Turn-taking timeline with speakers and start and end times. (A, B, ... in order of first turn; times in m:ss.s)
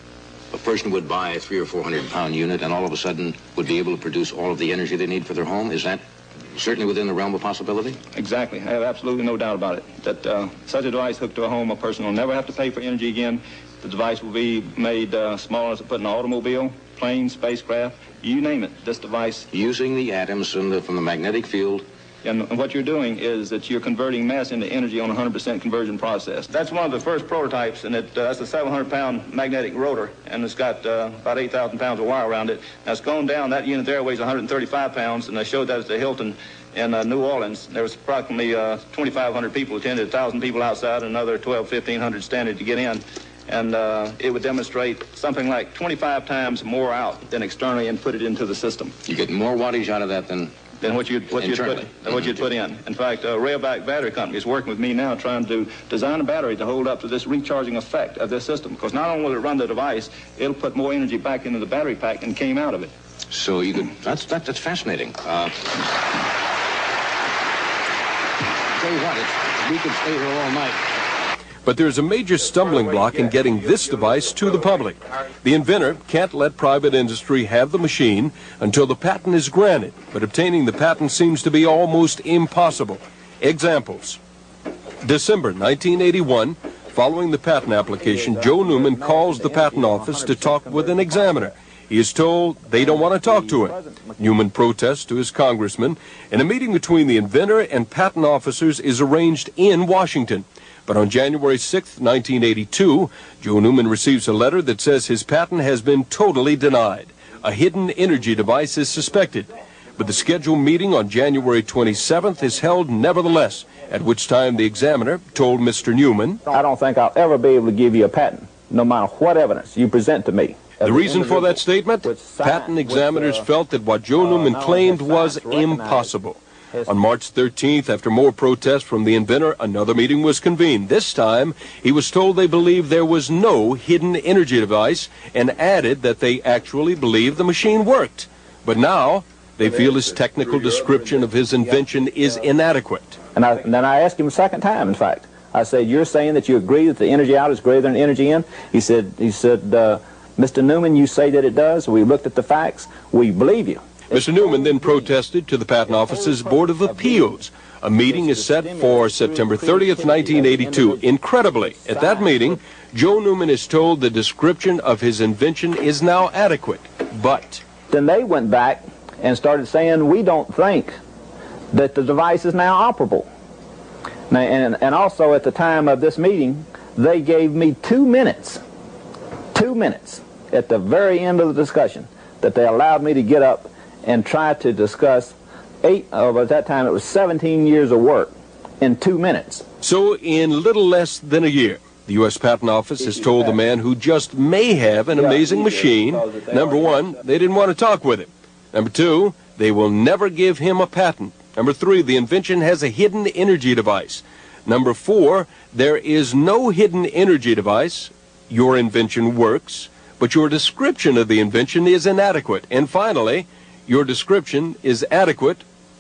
0:00.5-0:06.0 A
0:06.5-0:08.0 A
0:08.2-0:19.4 B
0:19.5-0:21.8 A
0:22.2-0:48.9 B
0:49.0-0:50.5 A
0:50.8-1:02.9 B
0:51.3-0:52.4 A
1:03.3-1:05.5 A
1:08.7-1:10.8 A
1:11.6-1:24.2 C
1:25.0-1:56.4 C
1:28.0-1:31.5 D
1:32.7-1:34.3 D
1:56.5-2:03.5 D
2:00.8-2:23.2 C
2:04.2-2:06.1 D
2:23.3-2:35.1 D
2:34.1-2:47.6 C
2:35.8-2:37.4 D
2:38.0-2:42.6 D
2:47.9-2:50.9 D
2:51.7-2:53.3 D
2:54.3-2:58.6 D
2:59.5-3:09.6 D
3:09.8-3:35.6 C
3:13.0-3:13.6 D
3:15.1-3:17.2 D